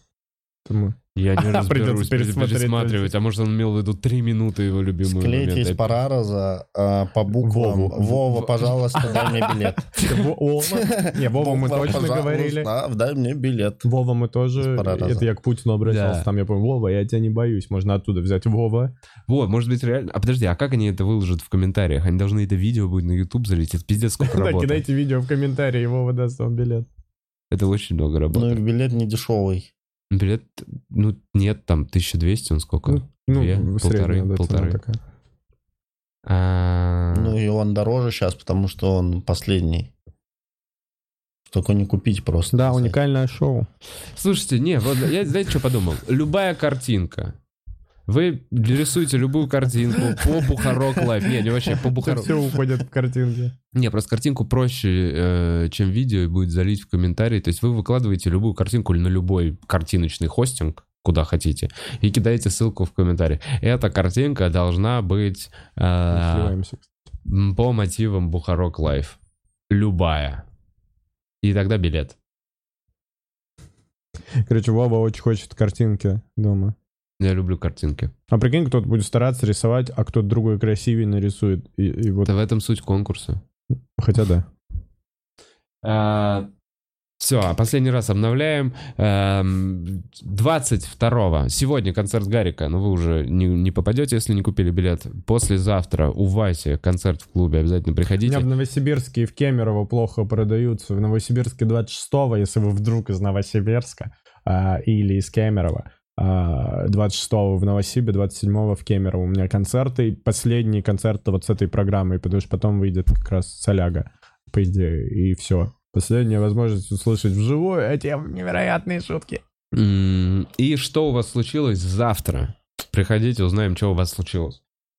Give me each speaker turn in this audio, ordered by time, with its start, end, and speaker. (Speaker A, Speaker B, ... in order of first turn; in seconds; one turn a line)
Speaker A: 0.7-3.1
Speaker B: 1.1-6.0
Speaker C: 5.0-9.9
Speaker A: 7.4-8.2
Speaker B: 8.3-10.3
Speaker A: 10.0-12.7
Speaker C: 10.7-13.9
Speaker A: 13.8-18.9
Speaker C: 14.6-15.3
Speaker B: 15.8-16.3
Speaker B: 19.3-24.8
Speaker A: 24.2-26.9
Speaker B: 27.5-28.6
Speaker C: 28.3-29.7
Speaker B: 30.1-34.8
Speaker A: 32.9-35.0
Speaker B: 36.3-37.4
Speaker C: 37.1-39.9
Speaker C: 41.5-43.0
Speaker A: 42.5-43.7
Speaker B: 44.1-47.4
Speaker B: 48.1-52.4
Speaker A: 51.7-53.5
Speaker B: 53.7-66.6
Speaker A: 66.1-66.9
Speaker B: 67.2-69.2
Speaker B: 69.7-70.5
Speaker B: 71.4-72.2
Speaker A: 74.5-76.8
Speaker B: 77.2-78.1
Speaker A: 78.3-82.3
Speaker B: 82.2-83.4
Speaker A: 84.0-84.5
Speaker B: 85.8-86.5
Speaker B: 87.2-98.5
Speaker A: 98.2-119.4
Speaker B: 119.7-124.6